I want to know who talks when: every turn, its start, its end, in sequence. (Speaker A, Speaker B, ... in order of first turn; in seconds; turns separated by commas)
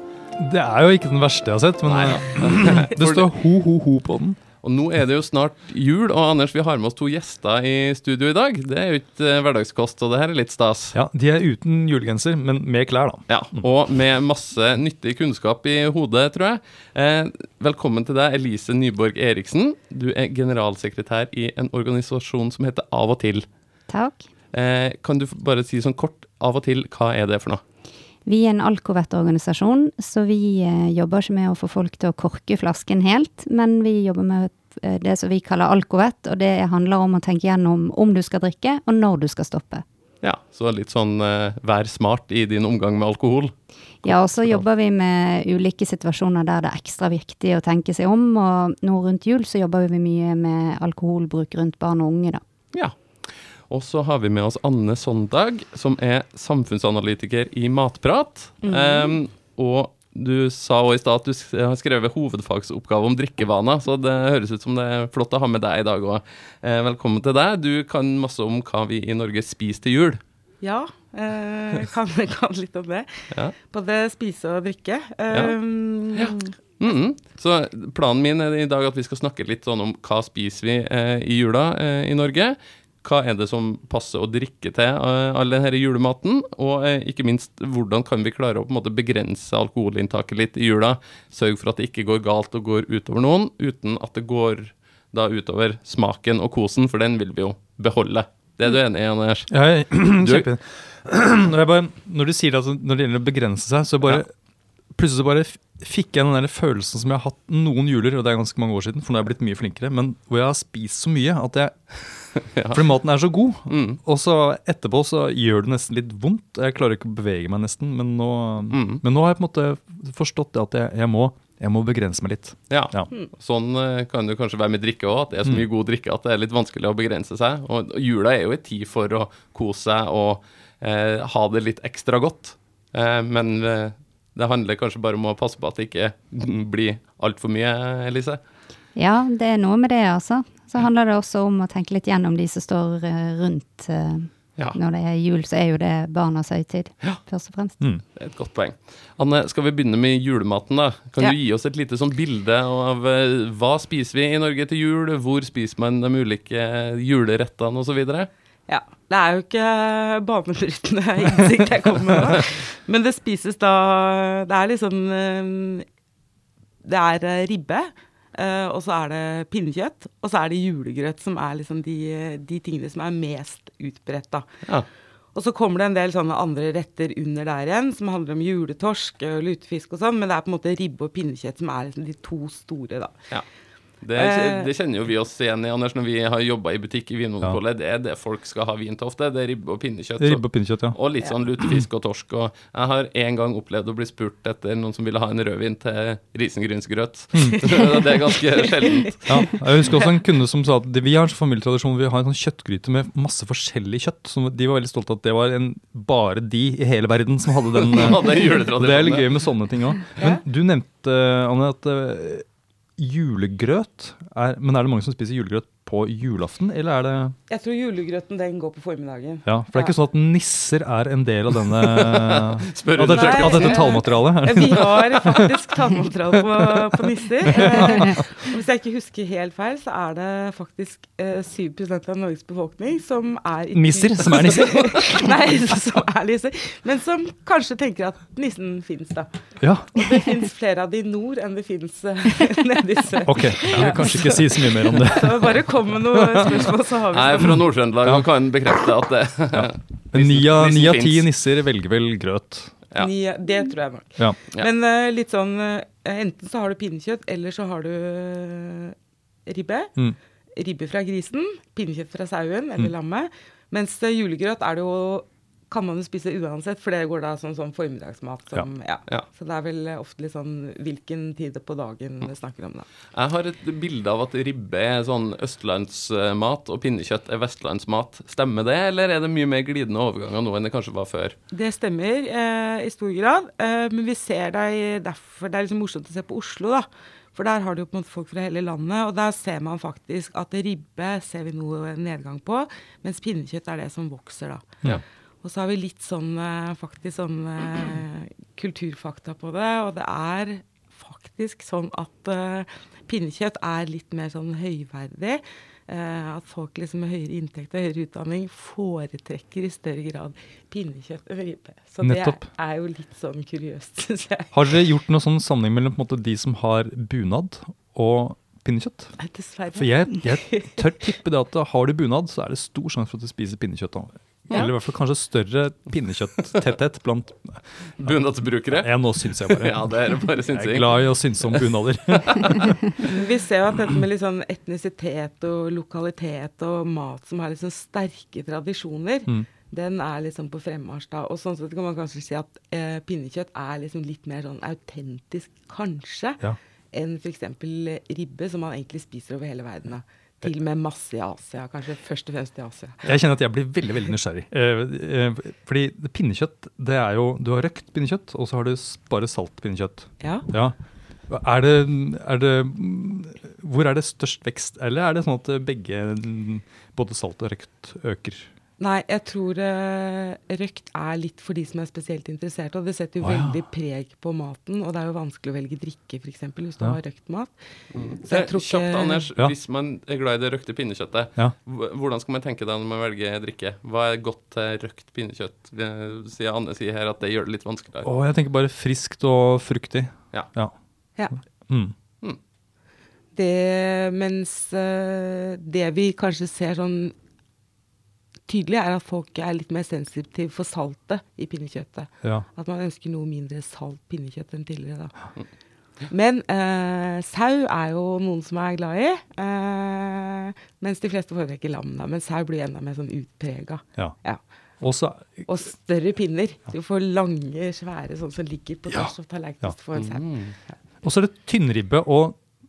Speaker A: 0.4-4.4, Speaker B: 1.9-3.3, Speaker B: 4.6-10.9, Speaker A: 10.9-13.6, Speaker B: 13.3-23.4, Speaker C: 23.9-24.2, Speaker B: 24.5-27.6, Speaker C: 28.2-39.8, Speaker B: 40.2-43.5, Speaker B: 44.0-44.6, Speaker C: 44.0-52.4, Speaker B: 52.7-70.2, Speaker D: 58.6-59.1, Speaker D: 70.6-76.5, Speaker B: 75.3-75.5, Speaker B: 76.1-100.5, Speaker A: 99.5-104.3, Speaker A: 104.9-123.1, Speaker B: 112.5-112.8, Speaker B: 113.7-114.0, Speaker B: 118.7-119.0, Speaker B: 122.7-138.4, Speaker C: 138.9-147.8, Speaker B: 148.2-158.3, Speaker D: 158.7-165.8, Speaker D: 166.8-174.4, Speaker D: 175.3-183.2, Speaker B: 184.0-199.6, Speaker D: 184.1-184.7, Speaker A: 190.2-191.0, Speaker A: 197.3-197.8, Speaker D: 197.8-199.1, Speaker A: 199.3-212.4, Speaker B: 207.8-209.4, Speaker D: 210.2-210.4, Speaker A: 213.0-217.3, Speaker D: 217.5-219.9, Speaker A: 219.4-225.5, Speaker B: 221.8-224.1, Speaker D: 223.1-239.3, Speaker A: 227.7-228.2, Speaker A: 233.7-235.3, Speaker A: 239.6-239.9, Speaker D: 239.9-247.6, Speaker A: 243.2-245.6, Speaker A: 246.1-246.5, Speaker B: 247.1-251.3, Speaker A: 249.5-252.7, Speaker D: 252.9-259.9, Speaker D: 260.5-272.9, Speaker B: 273.1-281.4, Speaker D: 281.5-294.6, Speaker D: 295.4-314.6, Speaker A: 312.0-312.5, Speaker A: 314.5-319.1, Speaker D: 319.2-321.1, Speaker A: 319.7-332.7, Speaker B: 328.0-333.1, Speaker D: 333.0-353.0, Speaker A: 353.0-360.8, Speaker D: 360.2-360.5, Speaker A: 361.3-368.5, Speaker D: 368.8-377.5, Speaker A: 373.2-373.6, Speaker B: 377.9-388.1, Speaker D: 378.2-379.2, Speaker A: 388.0-390.7, Speaker A: 391.7-391.9, Speaker D: 393.3-397.1, Speaker D: 398.5-405.3, Speaker D: 406.1-414.4, Speaker A: 414.8-415.5, Speaker D: 415.4-420.8, Speaker A: 418.9-419.7, Speaker B: 419.9-420.5, Speaker A: 421.0-422.4